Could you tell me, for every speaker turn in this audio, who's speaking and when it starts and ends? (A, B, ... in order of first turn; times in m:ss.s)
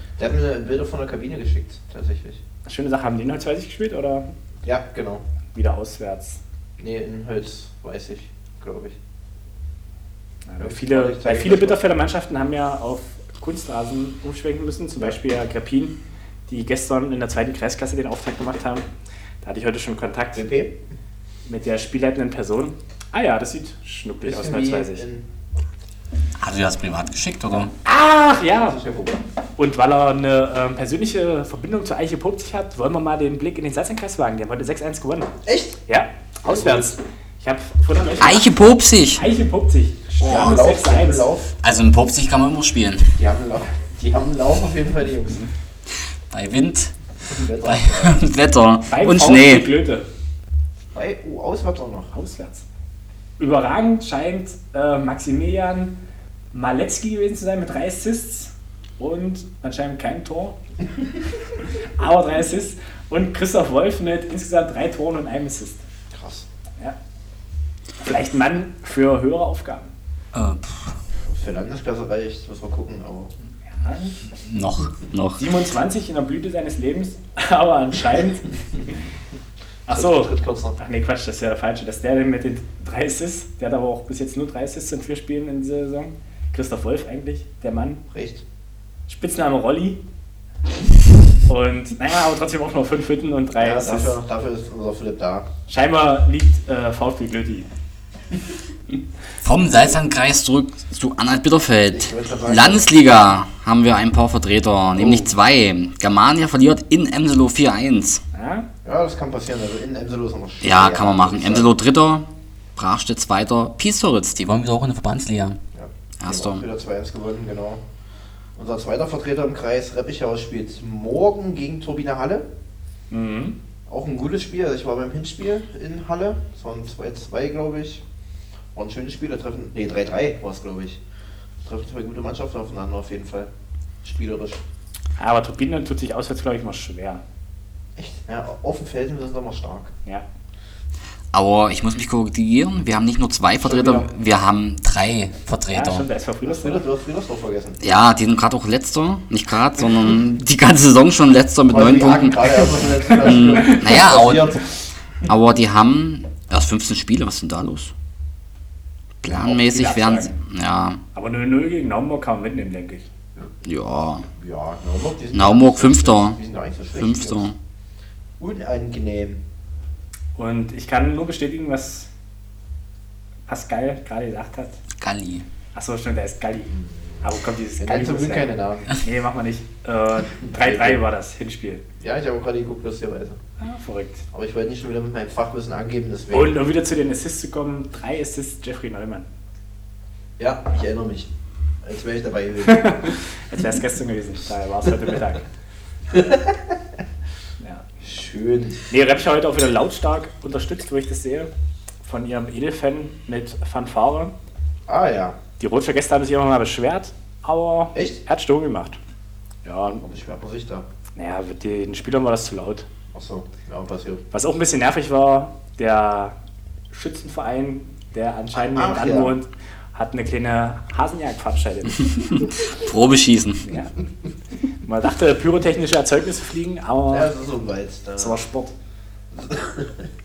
0:00.2-0:02.4 A
0:02.6-0:04.3 B
0:04.6-0:05.2 A
0:05.5-0:06.4 B
0:06.8-0:09.0 A
0:10.5-0:16.0 B
0:10.6-0:11.8 A
0:16.5-0:18.9 B
0:19.4-0:20.5 B
0:20.3-0:20.8 A
0:21.4-0:25.0 B
0:24.2-0:25.3 A
0:26.4-0:27.7 C
0:27.8-0:28.8 B
0:28.5-0:29.2 A
0:29.6-0:35.3 B
0:35.4-0:35.8 A
0:35.9-0:38.5 B
0:36.4-0:36.9 A
0:38.2-0:39.2 C
0:39.1-0:41.3 B
0:40.2-0:41.5 A
0:40.2-0:40.6 C
0:41.6-0:43.2 C
0:43.2-0:45.4 A
0:46.3-0:46.9 C
0:47.3-0:48.2 A
0:47.6-0:49.7 C
0:48.9-0:50.1 B
0:50.9-0:52.1 A
0:52.1-0:52.6 B
0:53.4-0:56.0 B
0:56.5-1:00.6 B
1:02.0-1:05.8 B
1:06.1-1:06.4 A
1:08.0-1:09.9 B
1:10.3-1:10.9 C
1:11.3-1:13.3 A
1:13.7-1:14.2 B
1:14.4-1:15.4 C
1:15.4-1:18.5 B
1:19.9-1:28.0 B
1:19.9-1:20.8 A
1:28.1-1:28.4 A
1:29.1-1:30.0 B
1:31.4-1:34.2 B
1:33.6-1:35.4 A
1:35.7-1:37.7 B
1:39.4-1:48.2 C
1:41.9-1:42.9 A
1:48.3-1:48.7 B
1:48.8-1:51.7 A
1:50.6-1:55.6 C
1:55.7-1:57.8 A
1:56.2-1:56.6 C
1:58.6-2:02.4 A
2:03.1-2:03.6 B
2:03.9-2:08.0 A
2:08.7-2:11.0 A
2:11.6-2:13.5 A
2:14.0-2:14.6 A
2:15.2-2:17.2 B
2:18.0-2:19.9 A
2:21.3-2:26.0 C
2:23.6-2:24.1 A
2:25.7-2:26.8 B
2:26.4-2:27.8 A
2:27.8-2:32.5 C
2:31.7-2:34.7 A
2:33.2-2:34.5 C
2:33.2-2:33.8 B
2:35.2-2:37.9 C
2:39.2-2:41.0 C
2:39.4-2:40.4 B
2:41.1-2:43.1 B
2:43.6-2:44.2 C
2:44.3-2:47.5 A
2:45.3-2:46.4 C
2:47.0-2:47.5 C
2:48.4-2:49.4 A
2:50.4-2:52.1 B
2:53.5-2:54.8 B
2:55.0-2:55.4 C
2:55.7-3:01.8 B
2:57.8-2:58.9 A
3:00.4-3:01.0 A
3:02.0-3:03.4 A
3:03.6-3:04.2 B
3:04.3-3:06.6 A
3:06.3-3:09.3 B
3:10.4-3:11.3 A
3:11.8-3:13.0 A
3:12.6-3:15.4 B
3:16.1-3:16.7 A
3:18.0-3:18.8 A
3:18.9-3:21.5 B
3:22.0-3:24.3 B
3:24.9-3:25.4 A
3:25.6-3:29.0 B
3:27.9-3:28.2 A
3:29.6-3:30.0 B
3:30.0-3:30.8 A
3:31.2-3:32.9 B
3:33.1-3:34.2 A
3:34.3-3:36.3 B
3:36.9-3:42.5 B
3:38.5-3:39.4 A
3:42.3-3:43.7 C
3:43.6-3:44.0 B
3:44.8-3:47.3 B
3:47.1-3:48.4 A
3:48.2-3:48.7 B
3:49.3-3:50.1 A